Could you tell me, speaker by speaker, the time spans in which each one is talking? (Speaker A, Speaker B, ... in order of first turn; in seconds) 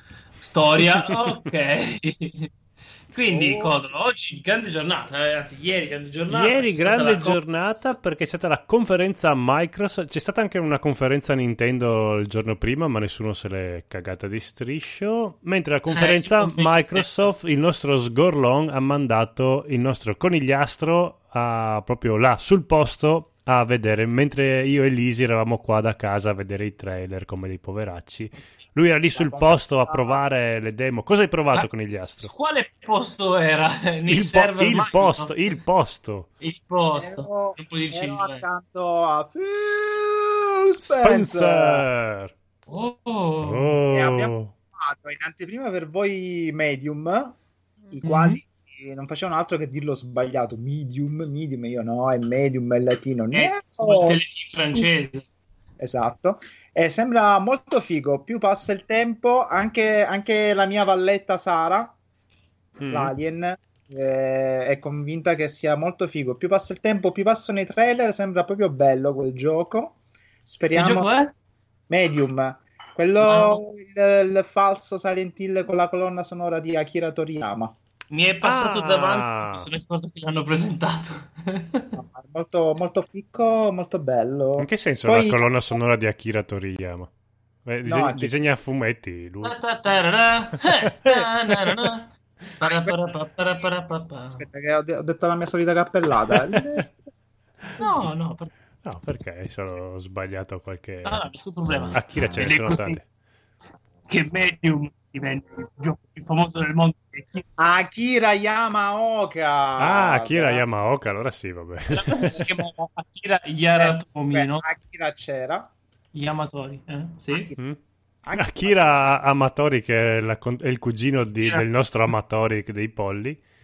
Speaker A: 0.4-2.5, 3.1-7.4, 15.9-17.3, 31.5-35.5, 36.4-38.4, 42.7-43.8, 48.0-48.4, 53.3-55.3, 70.7-71.3, 73.2-73.6, 78.1-81.9, 89.4-94.4, 97.8-98.5, 101.0-103.0, 104.1-107.5, 111.9-114.6, 116.1-117.5, 121.4-121.7
Speaker B: 3.3-3.8, 29.1-30.2, 37.0-41.9, 43.9-47.4, 47.9-54.2, 55.8-61.9, 62.9-71.1, 71.9-77.8, 82.0-85.5, 87.8-88.4, 92.6-93.0, 94.3-96.9, 107.6-110.6, 112.2-112.8, 113.8-115.7, 117.3-117.6, 118.2-119.1
Speaker C: 6.3-32.3, 34.1-36.3, 40.8-42.3, 43.4-44.5, 62.8-63.1, 78.4-79.7, 84.6-87.1, 87.7-89.6, 91.1-91.8, 96.3-96.6, 98.8-101.2, 101.9-103.0, 109.8-112.4, 118.4-123.4